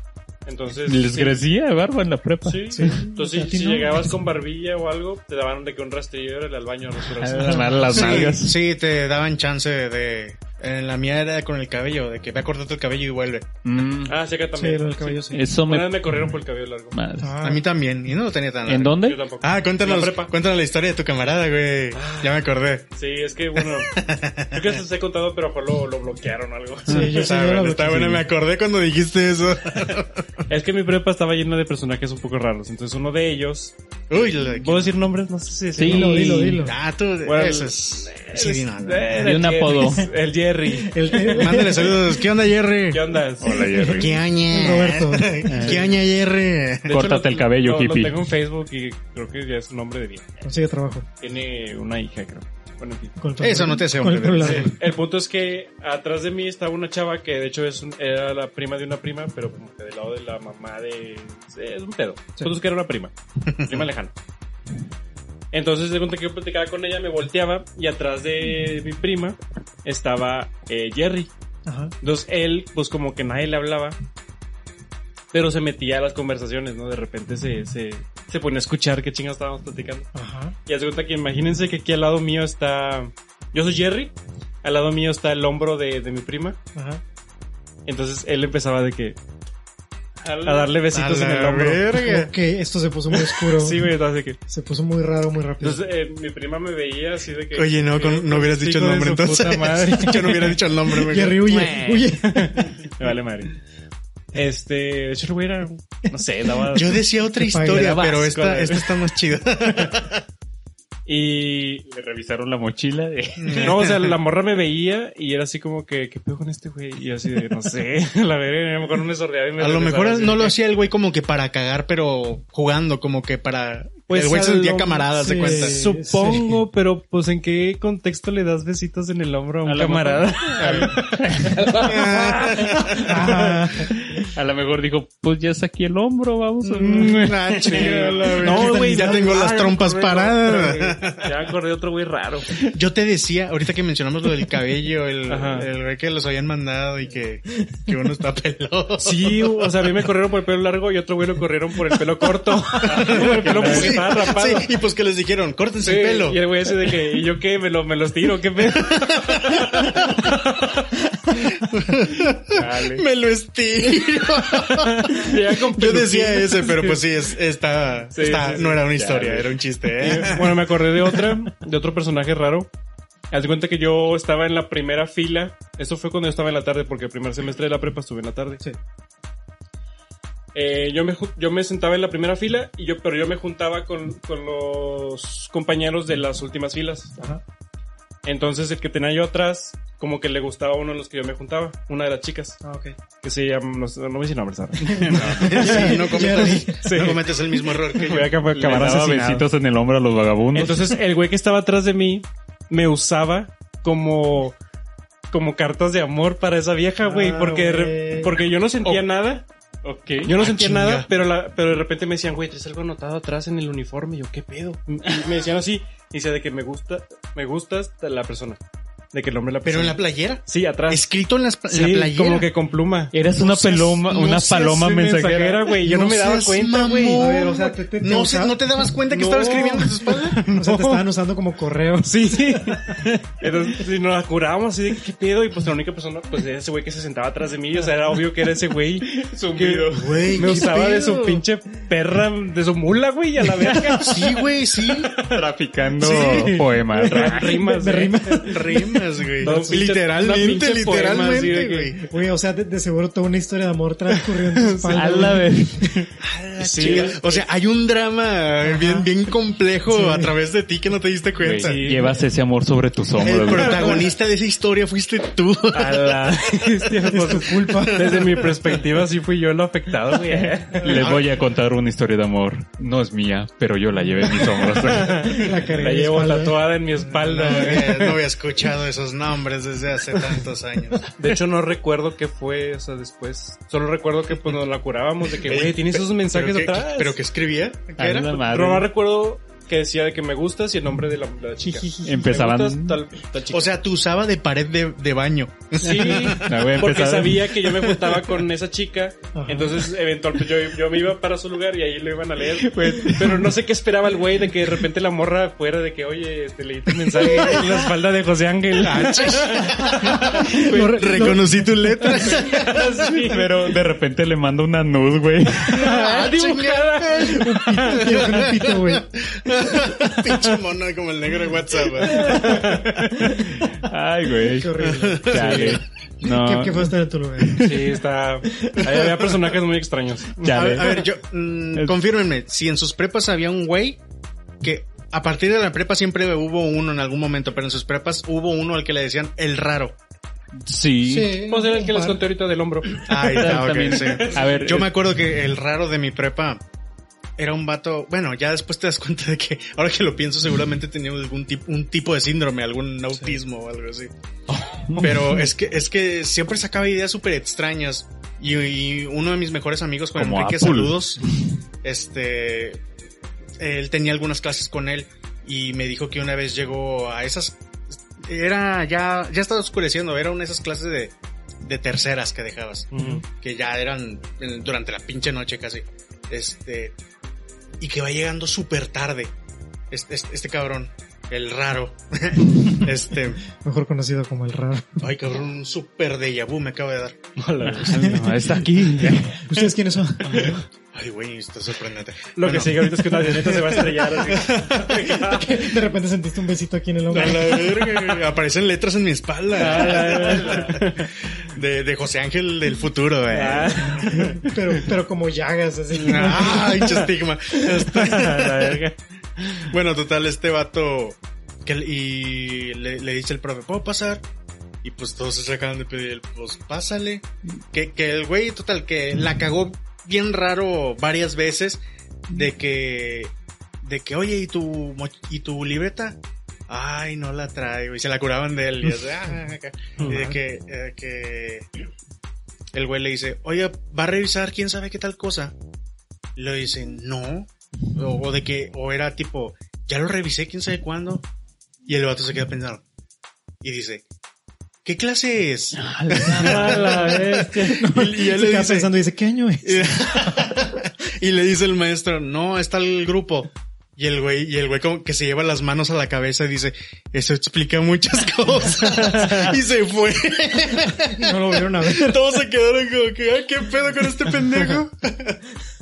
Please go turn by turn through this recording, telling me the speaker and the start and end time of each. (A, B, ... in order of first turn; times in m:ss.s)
0:00.4-0:01.4 A
0:00.8-0:03.0 B
0:02.4-0:08.3 A
0:02.7-0:04.1 C
0:07.2-0:08.5 B
0:07.4-0:07.9 C
0:07.9-0:13.5 D
0:13.6-0:14.1 B
0:14.1-0:17.0 A
0:14.6-0:15.5 C
0:15.3-0:16.2 B
0:16.9-0:17.3 B
0:17.2-0:17.6 C
0:17.4-0:22.8 D
0:18.6-0:19.2 B
0:18.9-0:20.3 A
0:21.9-0:22.4 A
0:22.9-0:23.9 A
0:23.6-0:24.8 D
0:24.5-0:27.2 A
0:26.9-0:27.1 B
0:26.9-0:28.2 C
0:27.1-0:30.4 D
0:30.5-0:36.6 A
0:34.1-0:34.9 D
0:35.8-0:36.6 B
0:35.8-0:36.8 C
0:36.6-0:39.3 D
0:37.2-0:41.4 A
0:39.2-0:40.1 B
0:40.7-0:42.2 C
0:41.2-0:43.1 D
0:42.9-0:43.8 A
0:43.4-0:44.2 B
0:43.4-0:45.6 C
0:43.9-0:46.9 D
0:45.5-0:45.9 B
0:45.6-0:45.9 A
0:46.9-0:50.3 A
0:46.9-0:48.2 B
0:50.4-0:51.0 C
0:51.2-0:53.2 A
0:53.2-0:54.8 C
0:53.4-0:54.7 D
0:54.4-1:04.1 A
1:05.5-1:11.3 A
1:11.6-1:11.9 C
1:12.0-1:14.0 A
1:15.3-1:20.1 A
1:20.1-1:20.6 C
1:20.6-1:26.6 A
1:26.7-1:27.0 C
1:27.8-1:29.2 A
1:30.2-1:32.0 A
1:30.4-1:30.7 B
1:30.9-1:32.3 D
1:31.9-1:35.8 C
1:33.3-1:34.4 A
1:35.6-1:40.6 A
1:37.5-1:41.6 D
1:40.9-1:42.9 C
1:41.4-1:43.5 A
1:44.3-1:47.0 A
1:46.7-1:50.2 D
1:47.3-1:48.0 C
1:47.7-1:49.0 A
1:51.0-1:51.8 A
1:51.9-1:53.8 B
1:53.4-1:54.2 D
1:53.6-2:00.6 A
1:59.6-2:05.8 D
2:04.1-2:13.6 A
2:05.1-2:06.6 C
2:09.6-2:18.0 B
2:11.8-2:13.1 D
2:13.0-2:14.0 C
2:16.6-2:21.3 D
2:16.8-2:22.6 A
2:18.4-2:19.3 C
2:22.7-2:30.0 D
2:25.3-2:25.7 A
2:27.5-2:27.9 C
2:29.0-2:34.7 A
2:32.8-2:36.4 D
2:32.8-2:34.3 B
2:35.8-2:40.7 A
2:38.7-2:40.4 D
2:41.4-2:51.1 D
2:42.5-2:43.0 B
2:44.6-2:47.0 A
2:48.1-2:49.5 B
2:48.2-2:48.8 A
2:49.9-2:52.7 A
2:50.1-2:50.4 B
2:53.3-2:58.6 A
3:00.5-3:07.2 A
3:08.2-3:12.6 A
3:12.6-3:12.9 C
3:13.2-3:16.1 A
3:14.9-3:16.8 C
3:15.1-3:15.4 B
3:15.3-3:18.4 D
3:16.8-3:19.4 A
3:18.5-3:21.0 B
3:20.5-3:24.6 A
3:25.3-3:29.4 A
3:27.0-3:28.4 C
3:29.8-3:30.4 B
3:30.2-3:38.6 A
3:30.4-3:31.1 D
3:39.1-3:41.0 A
3:39.6-3:42.5 D
3:41.7-3:47.3 A
3:43.1-3:45.7 B
3:43.4-3:43.6 D
3:45.7-3:50.4 D
3:47.1-3:48.6 C
3:49.1-3:51.0 A
3:50.5-3:53.0 C
3:52.0-4:05.2 A
3:59.0-4:00.6 B
3:59.9-4:01.4 D
4:04.0-4:05.1 D
4:05.2-4:07.6 B
4:06.0-4:08.5 A
4:06.0-4:06.5 D
4:06.9-4:09.8 C
4:08.4-4:12.0 D
4:09.4-4:12.0 A
4:12.1-4:16.0 C
4:14.5-4:15.4 A
4:14.9-4:15.9 B
4:16.2-4:21.8 D
4:16.6-4:17.4 A
4:18.6-4:19.1 C
4:19.9-4:20.3 C
4:21.4-4:23.9 B
4:21.6-4:22.2 A
4:23.2-4:26.1 D
4:23.4-4:24.1 A
4:25.7-4:31.2 A
4:27.1-4:28.1 C
4:27.6-4:28.6 D
4:30.7-4:35.3 B
4:30.8-4:31.3 D
4:34.3-4:38.2 A
4:35.2-4:36.8 C
4:37.1-4:41.0 D
4:41.2-4:47.2 A
4:45.4-4:48.4 D
4:48.0-4:48.9 B
4:48.3-4:53.7 A
4:51.6-4:52.2 C
4:52.0-4:53.0 B
4:53.5-4:56.5 D
4:55.8-5:10.7 A
4:55.9-4:57.9 B
4:59.3-4:59.8 C
5:02.5-5:03.6 B
5:08.8-5:13.2 D
5:10.0-5:12.4 C
5:12.2-5:13.7 A
5:13.2-5:16.3 B
5:15.7-5:18.0 A
5:15.7-5:22.7 D
5:17.4-5:19.0 C
5:22.0-5:23.0 A
5:22.7-5:24.7 B
5:23.2-5:23.5 C
5:24.5-5:27.8 C
5:24.8-5:25.8 D
5:25.2-5:27.9 B
5:25.3-5:25.8 A
5:27.6-5:30.8 A
5:28.4-5:29.2 C
5:30.4-5:31.0 B
5:30.5-5:34.0 D
5:34.6-5:40.0 D
5:40.6-5:41.5 B
5:41.0-5:42.2 C
5:41.4-5:44.8 A
5:43.0-5:46.6 D
5:43.1-5:44.9 B
5:47.4-5:54.1 D
5:54.5-5:55.4 B
5:55.0-6:01.2 D
6:00.1-6:01.1 B
6:01.8-6:02.8 D
6:03.6-6:16.9 D
6:12.9-6:13.2 A
6:13.0-6:13.2 C
6:17.8-6:19.3 D
6:19.9-6:23.4 D
6:23.5-6:25.0 C
6:25.0-6:27.2 D
6:27.4-6:28.3 A
6:27.6-6:29.4 B
6:27.9-6:28.3 C
6:29.3-6:30.6 C
6:30.2-6:30.6 A
6:30.9-6:35.3 D
6:32.4-6:35.7 A
6:35.0-6:37.8 C
6:37.1-6:44.4 D
6:39.5-6:41.1 A
6:43.3-6:44.5 A
6:44.4-6:47.1 C
6:45.9-6:48.8 D
6:46.4-6:46.9 A
6:47.6-6:49.0 A
6:49.6-6:54.2 D
6:54.8-7:11.7 D
7:10.0-7:10.4 C
7:12.7-7:15.5 D
7:16.4-7:21.2 D
7:21.8-7:22.8 D
7:23.6-7:24.0 D
7:24.8-7:28.9 D
7:25.8-7:26.9 B
7:26.4-7:30.5 C
7:26.7-7:27.1 A
7:29.6-7:45.4 D
7:41.0-7:42.2 C